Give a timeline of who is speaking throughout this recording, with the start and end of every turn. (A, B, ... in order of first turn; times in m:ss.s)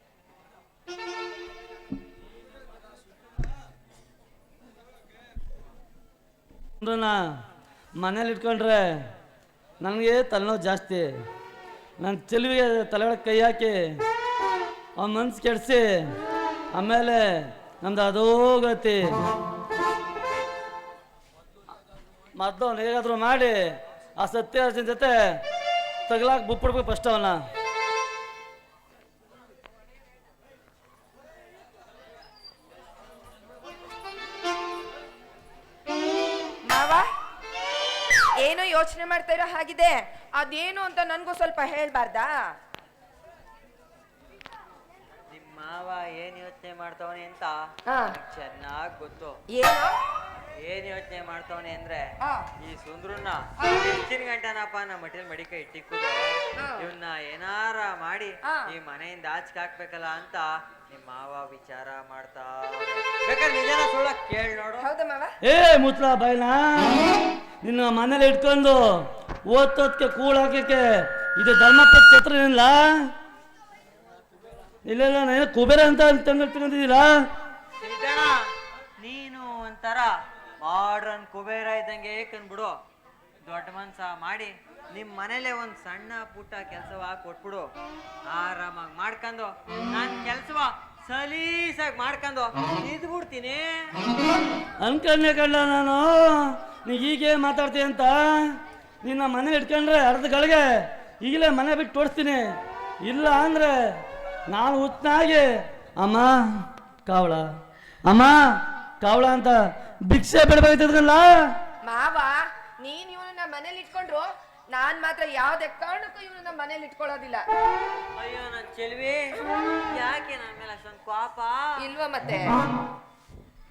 0:06.8-0:07.4 A
0:08.0-0:09.1 A
0:09.8-0:11.2 A
0:12.0-0:14.0 A
0:15.0-0:16.1 A
0:16.7-0:19.2 A
0:22.4-0:25.4 A
0:26.1-0:27.4 A
0:36.6-0:37.1 B
0:38.4-0:42.4 B
0:45.3-0:47.5 C
0:47.9-0:48.1 B
0:48.1-0:49.4 C
0:49.5-0:49.9 B
0:50.6-0:52.1 C
0:52.6-0:56.2 C
0:53.6-0:53.8 B
0:56.6-0:56.9 B
0:56.8-1:04.8 C
1:04.8-1:05.3 B
1:05.4-1:13.1 A
1:14.8-1:17.1 A
1:17.8-1:18.4 C
1:19.0-1:22.7 C
1:23.4-1:27.6 C
1:28.3-1:33.7 C
1:34.8-1:47.4 A
1:48.0-1:48.4 A
1:49.0-1:51.3 A
1:51.8-1:57.4 B
1:58.2-2:01.7 C
2:01.8-2:02.5 B